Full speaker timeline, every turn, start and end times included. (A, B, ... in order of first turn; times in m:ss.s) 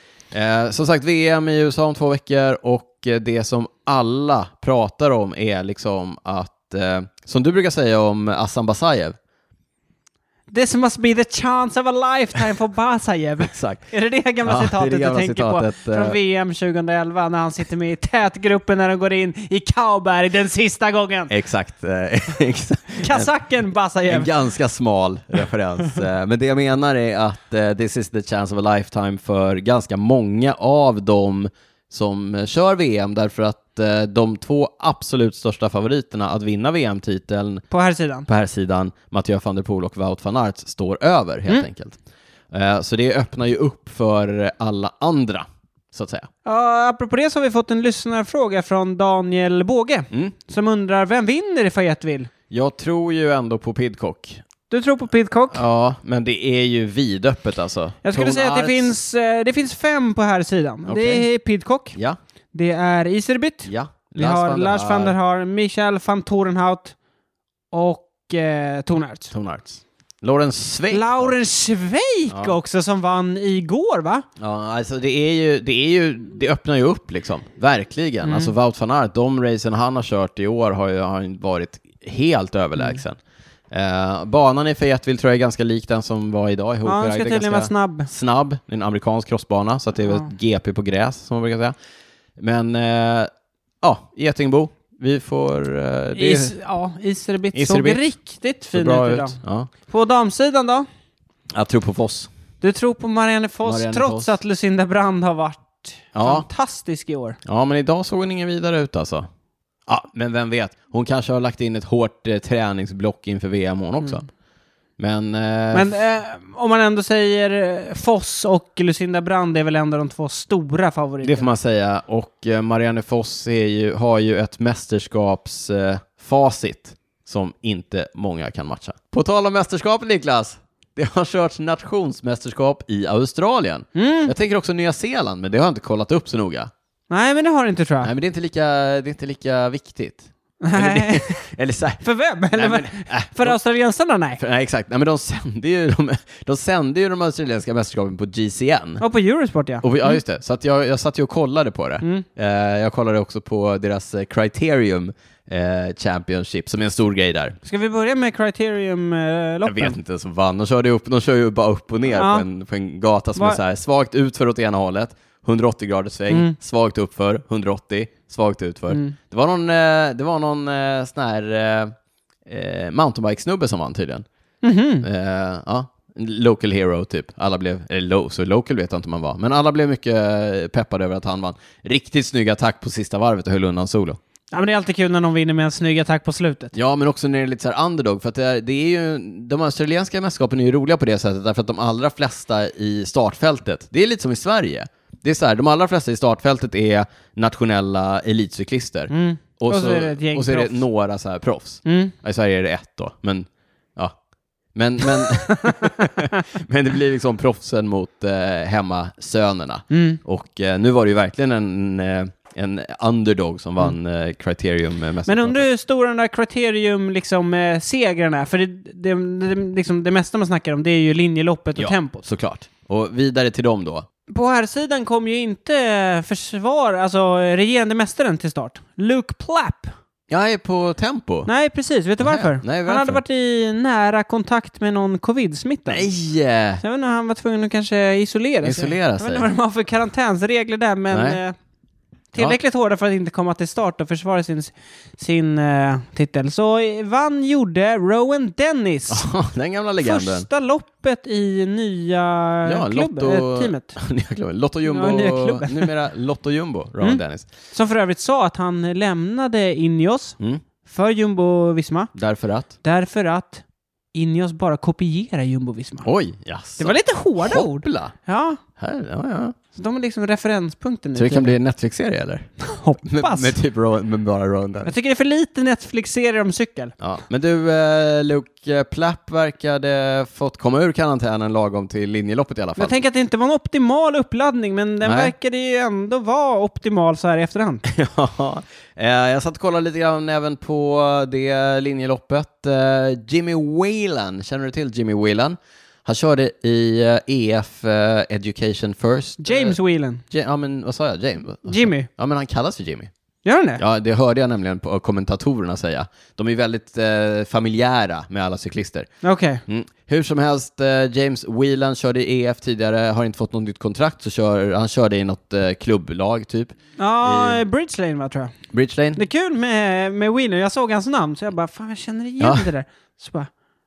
0:00.3-0:09.2 A
0:10.5-0:21.3 B
0:13.4-0:13.8 A
0:14.4-0:16.2 A
0:21.3-0:23.3 A
0:23.0-0:24.3 B
0:24.1-0:37.6 A
0:37.7-0:38.3 B
0:38.3-0:42.0 A
0:42.5-0:46.3 A
0:46.4-0:52.3 B
0:52.5-0:54.4 A
0:54.7-0:55.6 B
0:55.5-0:58.9 A
0:58.0-1:02.0 B
1:00.9-1:01.2 A
1:02.5-1:06.9 B
1:03.6-1:05.2 A
1:07.7-1:09.3 B
1:09.3-1:11.3 A
1:10.9-1:14.2 B
1:12.3-1:12.5 A
1:14.4-1:23.2 A
1:18.2-1:18.5 B
1:23.7-1:31.7 A
1:26.8-1:28.1 B
1:32.4-1:33.3 A
1:33.8-1:36.5 A
1:36.1-1:40.9 B
1:37.5-1:38.0 A
1:38.7-1:39.7 A
1:41.5-1:42.3 A
1:42.6-1:47.4 B
1:43.6-1:44.3 A
1:46.1-1:46.4 A
1:47.4-1:49.3 A
1:49.9-1:54.2 A
1:55.0-1:55.9 A
1:55.7-2:01.5 B
2:01.2-2:16.7 A
2:13.9-2:14.3 B
2:17.1-2:18.1 B
2:18.0-2:22.0 A
2:20.6-2:21.4 B
2:22.0-2:24.4 B
2:22.5-2:23.6 A
2:24.4-2:29.0 A
2:29.0-2:30.2 B
2:29.8-2:37.6 A
2:37.6-2:40.0 B
2:39.6-2:51.9 A
2:42.1-2:42.4 B
2:46.3-2:46.5 B
2:48.9-2:49.2 B
2:52.4-2:54.2 A
2:54.6-2:55.1 B
2:55.0-3:04.2 A
3:04.5-3:06.7 B
3:06.7-3:24.1 A
3:19.1-3:20.8 B
3:21.8-3:22.1 B
3:24.7-3:35.6 A
3:25.5-3:25.8 B
3:29.9-3:30.2 B
3:35.2-3:42.2 B
3:41.8-3:44.0 A
3:44.3-3:49.9 B
3:50.3-3:51.5 A
3:51.4-3:56.1 B
3:52.2-3:53.2 A
3:55.9-3:56.8 A
3:56.8-4:01.5 B
3:58.6-3:59.5 A
4:01.1-4:01.4 A
4:02.3-4:09.3 B
4:09.1-4:10.5 A
4:10.0-4:14.0 B
4:12.6-4:17.5 A
4:14.8-4:15.9 B
4:17.0-4:22.1 B
4:22.1-4:22.7 A
4:22.8-4:26.1 B
4:26.0-4:28.1 A
4:26.8-4:28.6 B
4:28.8-4:29.5 A
4:29.7-4:31.5 B
4:31.2-4:32.5 A
4:32.6-4:33.5 B
4:33.0-4:34.9 A
4:34.8-4:36.9 B
4:37.0-4:42.9 A
4:42.8-4:47.8 B
4:45.0-4:45.3 A
4:47.8-4:59.8 A
4:59.4-5:00.2 B
5:00.3-5:03.1 A
5:01.7-5:02.1 B
5:03.4-5:03.8 B
5:03.8-5:09.1 A
5:09.2-5:09.6 B
5:09.7-5:17.6 A
5:17.0-5:18.5 B
5:18.7-5:19.2 A
5:19.2-5:23.5 B
5:22.4-5:22.6 A